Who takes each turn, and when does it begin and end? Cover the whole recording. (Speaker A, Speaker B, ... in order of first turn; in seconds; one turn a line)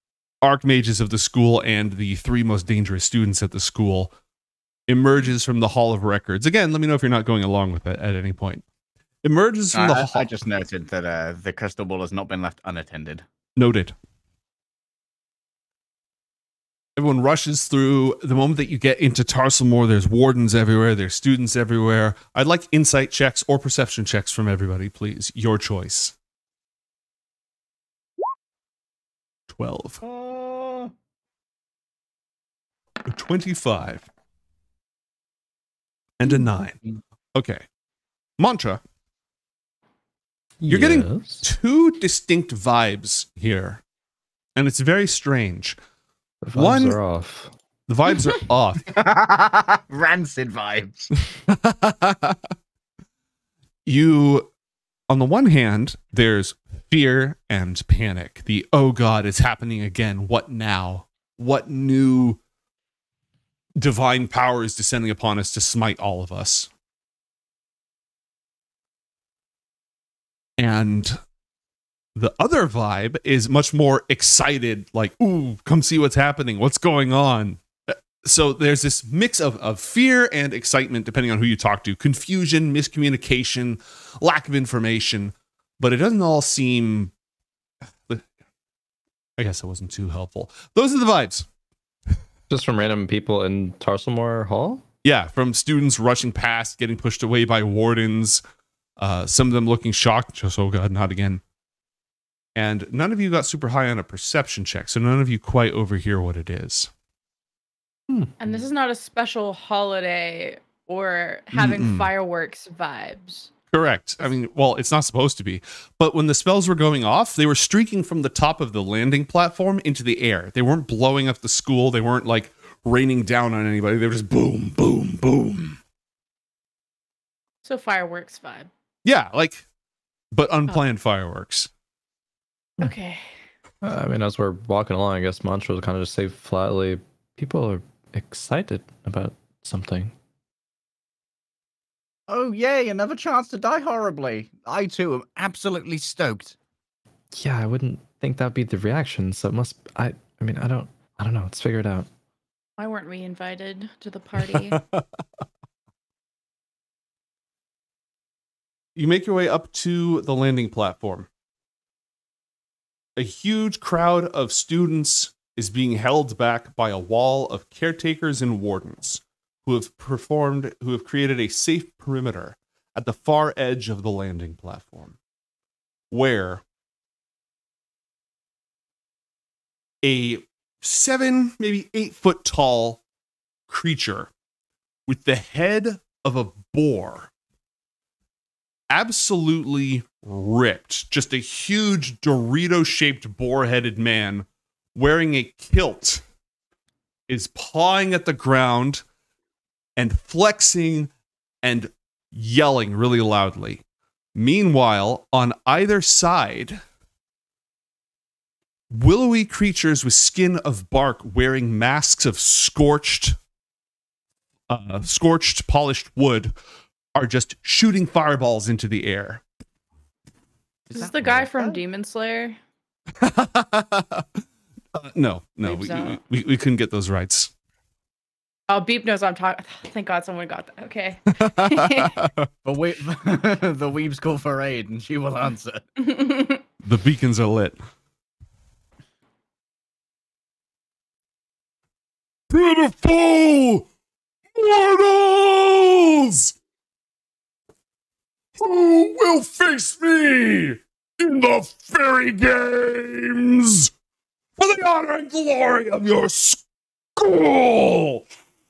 Speaker A: 0.4-4.1
Speaker A: 4.9-8.6
Speaker A: 9.2-10.3
Speaker B: 9.7-13.2
Speaker A: 13.5-13.9
Speaker A: 17.0-26.1
Speaker A: 29.5-30.0
Speaker B: 30.0-30.9
Speaker A: 33.0-34.1
Speaker A: 36.2-36.8
Speaker A: 37.3-37.6
Speaker A: 38.4-38.8
Speaker C: 40.6-41.5
Speaker A: 40.7-43.8
Speaker A: 44.5-45.8
Speaker C: 46.4-47.5
Speaker A: 46.5-47.0
Speaker A: 47.9-48.9
Speaker B: 48.9-51.1
Speaker A: 51.5-52.4
Speaker A: 53.9-54.5
Speaker A: 55.1-62.4
Speaker A: 63.8-66.7
Speaker A: 70.6-71.2
Speaker A: 72.1-87.1
Speaker A: 89.4-91.5
Speaker C: 92.5-94.8
Speaker A: 95.0-98.4
Speaker A: 99.0-101.4
Speaker A: 102.5-106.9
Speaker D: 108.4-113.5
Speaker A: 111.5-112.1
Speaker A: 113.7-125.8
Speaker D: 127.6-128.7
Speaker A: 129.0-129.6
Speaker A: 130.3-131.7
Speaker D: 132.8-133.3
Speaker C: 133.8-140.1
Speaker B: 142.3-146.6
Speaker C: 147.3-152.1
Speaker D: 152.8-154.8
Speaker A: 154.6-155.0
Speaker A: 158.9-161.3
Speaker A: 163.2-175.2
Speaker A: 176.1-176.6
Speaker A: 180.0-183.0
Speaker A: 183.7-184.3
Speaker A: 185.1-187.3
Speaker A: 188.9-196.2
Speaker A: 197.3-199.0
Speaker A: 200.0-201.1
Speaker A: 201.6-203.8
Speaker A: 204.3-206.8
Speaker A: 208.9-213.3
Speaker A: 214.7-216.5
Speaker A: 217.1-219.4
Speaker B: 220.9-221.8
Speaker D: 220.9-222.6
Speaker A: 223.2-224.2
Speaker A: 224.9-227.5
Speaker D: 225.6-226.2
Speaker D: 228.7-232.2
Speaker A: 231.4-232.5
Speaker B: 232.6-235.8
Speaker D: 236.0-236.6
Speaker A: 236.8-237.8
Speaker A: 242.5-243.9
Speaker A: 244.5-246.5
Speaker A: 248.6-253.9
Speaker A: 254.6-256.6
Speaker A: 257.2-258.2